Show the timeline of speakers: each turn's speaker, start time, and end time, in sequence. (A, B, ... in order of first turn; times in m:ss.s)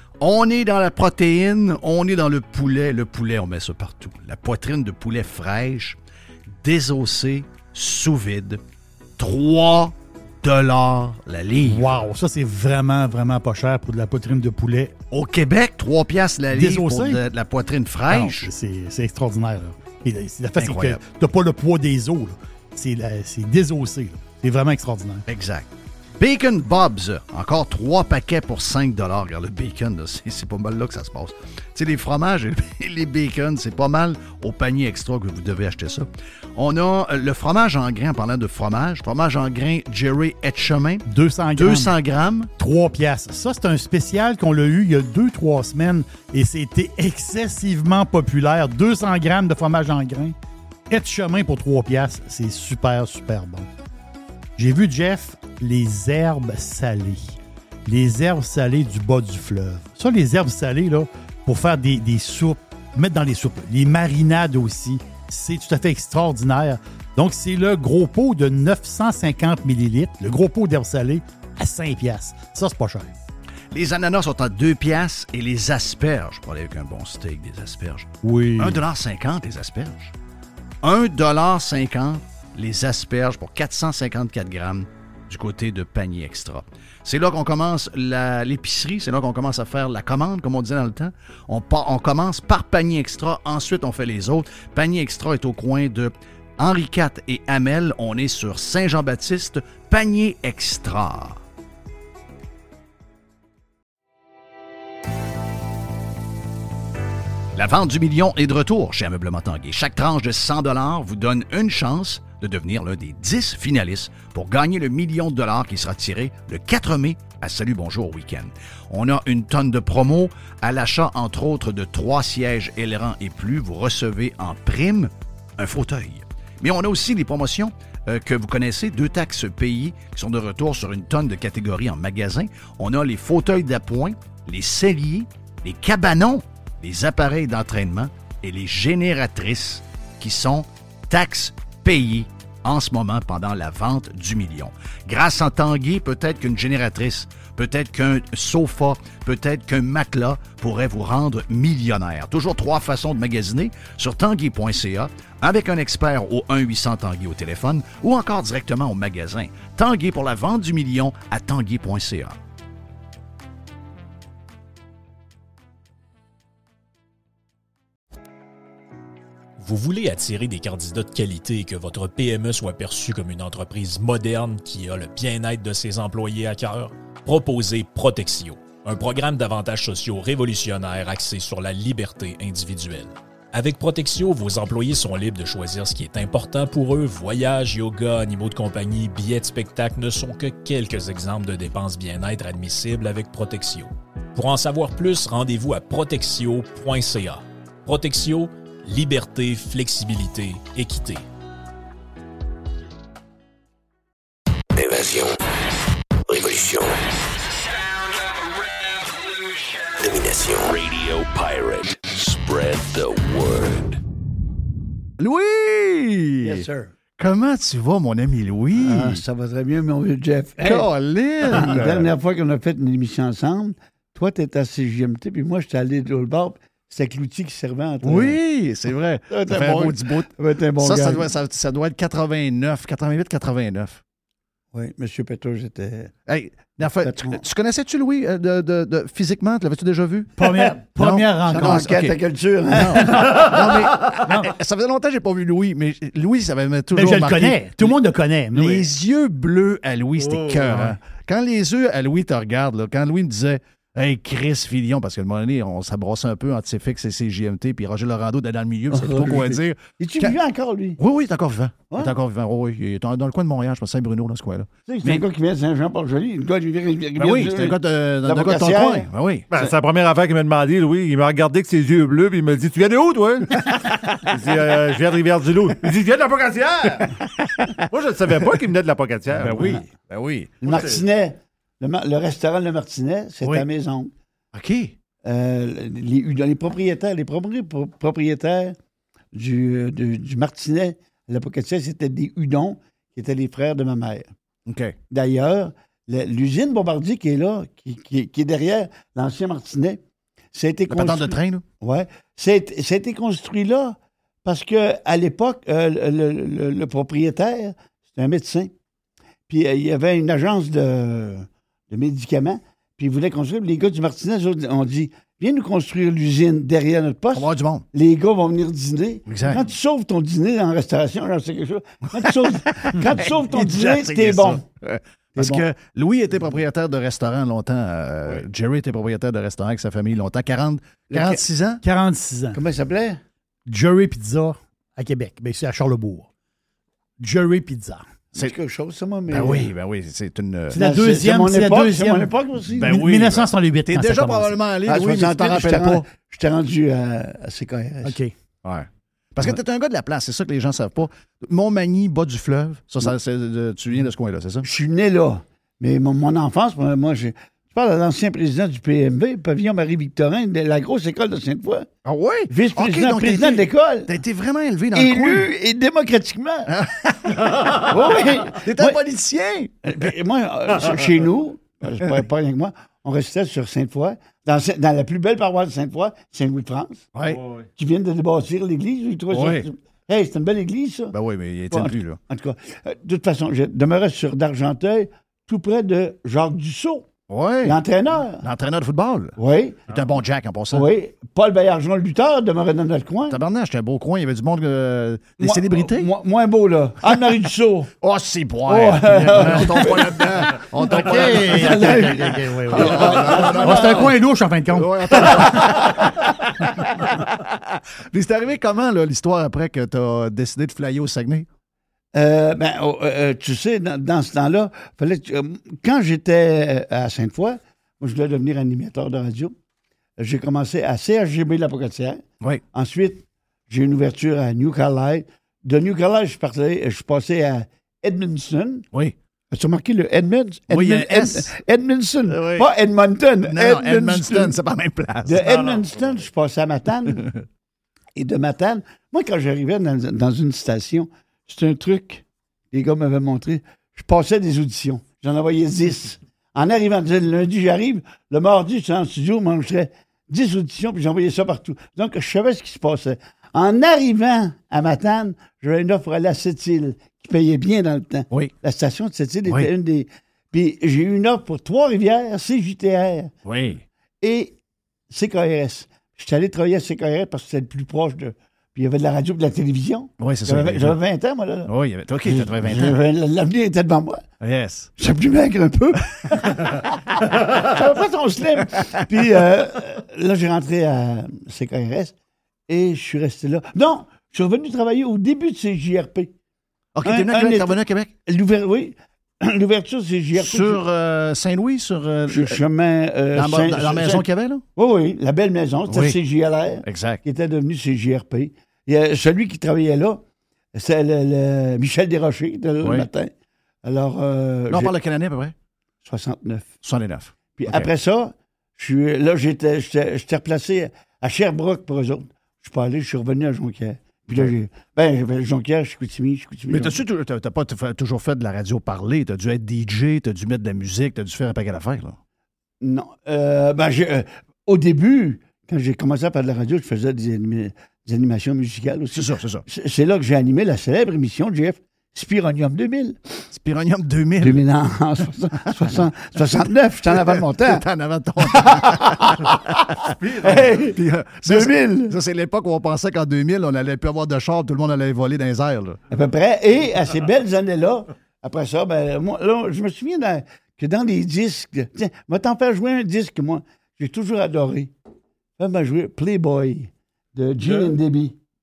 0:00.2-0:06.0 A
0:06.6-0:08.6 A
0:09.2-0:11.9 A
0:11.6-0:15.0 B
0:15.1-0:18.5 A
0:16.5-0:17.2 B
0:18.1-0:25.2 B
0:20.6-0:21.0 A
0:25.3-0:42.5 A
0:41.1-0:41.9 B
0:42.6-0:50.3 B
0:50.9-0:53.7 B
0:54.6-1:13.2 B
1:13.7-1:20.1 A
1:18.2-1:18.8 B
1:20.8-1:41.4 A
1:47.5-2:42.4 A
2:49.6-3:21.2 C
3:24.7-3:25.4 D
3:26.3-3:27.1 D
3:29.9-3:34.0 D
3:35.2-3:36.7 A
3:36.4-3:36.9 E
3:37.2-3:39.2 A
3:38.7-3:40.8 E
3:40.6-3:42.1 A
3:41.5-3:48.4 E
3:48.0-3:54.0 A
3:49.3-3:51.3 E
3:54.7-3:56.1 E
3:56.3-4:00.4 A
3:57.0-3:57.4 E
4:00.4-4:01.8 B
4:00.4-4:00.7 E
4:00.9-4:02.2 A
4:01.5-4:03.4 E
4:02.7-4:08.0 A
4:03.0-4:03.4 B
4:06.9-4:08.9 B
4:08.5-4:20.4 A
4:10.2-4:11.0 F
4:18.9-4:21.0 E
4:21.0-4:25.2 A
4:24.9-4:29.7 E
4:27.2-4:29.5 A
4:29.5-4:37.2 F
4:37.4-4:37.7 A
4:37.9-4:39.8 F
4:39.3-4:40.8 A
4:40.6-4:44.1 E
4:40.7-4:41.0 F
4:44.5-4:45.0 A
4:45.2-4:48.8 E
4:49.3-4:54.3 E
4:54.7-4:55.0 A
4:55.1-5:00.0 E
5:00.5-5:08.7 E
5:00.9-5:01.6 A
5:09.5-5:24.6 E
5:17.3-5:17.8 A
5:19.3-5:19.6 A
5:22.2-5:31.8 A
5:25.3-5:25.6 E
5:31.1-5:31.4 E
5:31.8-5:32.6 B
5:32.5-5:33.2 E
5:33.7-5:36.3 B
5:37.2-5:38.0 B
5:38.3-5:39.7 E
5:39.3-5:40.8 A
5:40.7-5:42.3 B
5:40.7-5:43.0 E
5:42.7-5:46.0 A
5:42.8-5:44.5 B
5:44.8-5:48.2 E
5:48.0-5:48.3 B
5:48.6-5:54.7 A
5:54.6-6:01.9 E
6:02.0-6:05.5 A
6:02.5-6:04.1 E
6:04.9-6:06.8 E
6:06.7-6:10.1 A
6:07.7-6:09.0 E
6:09.8-6:17.1 E
6:17.1-6:17.4 A
6:17.3-6:17.6 F
6:17.8-6:21.1 E
6:19.3-6:19.7 A
6:21.1-6:22.2 A
6:21.7-6:27.1 E
6:27.3-6:27.8 A
6:27.6-6:28.4 E
6:28.4-6:30.9 A
6:29.4-6:29.9 E
6:30.7-6:33.4 E
6:33.3-6:36.1 A
6:35.4-6:37.9 E
6:38.0-6:51.5 A
6:38.6-6:44.1 E
6:40.9-6:45.7 B
6:45.2-6:45.6 E
6:52.1-6:59.5 E
7:00.2-7:08.8 E
7:09.5-7:14.5 E
7:10.7-7:11.5 A
7:12.3-7:12.7 A
7:13.4-7:15.5 A
7:15.2-7:17.3 E
7:15.4-7:16.2 F
7:18.2-7:43.3 E
7:43.4-7:43.8 A
7:44.2-7:44.5 E
7:45.1-7:51.7 E
7:50.2-7:51.0 A
7:51.6-7:53.0 A
7:52.2-7:54.2 E
7:54.4-7:54.9 A
7:55.0-8:02.1 E
7:56.3-7:56.7 A
8:02.7-8:06.3 E
8:06.9-8:08.1 A
8:07.0-8:10.8 E
8:10.3-8:12.6 A
8:12.3-8:20.2 E
8:13.3-8:14.6 A
8:15.9-8:16.2 A
8:16.8-8:17.2 A
8:20.7-8:23.3 E
8:22.8-8:23.1 A
8:23.8-8:24.9 E
8:24.7-8:25.5 A
8:26.0-8:26.7 E
8:26.8-8:27.9 A
8:27.6-8:37.0 E
8:36.7-8:42.2 A
8:42.8-8:53.4 E
8:49.1-8:49.6 A
8:53.5-8:54.6 A
8:54.4-8:57.8 E
8:55.8-8:59.7 A
8:58.4-8:59.6 E
9:00.4-9:02.1 E
9:00.6-9:06.0 A
9:06.1-9:14.9 E
9:15.6-9:18.4 E
9:17.6-9:18.0 F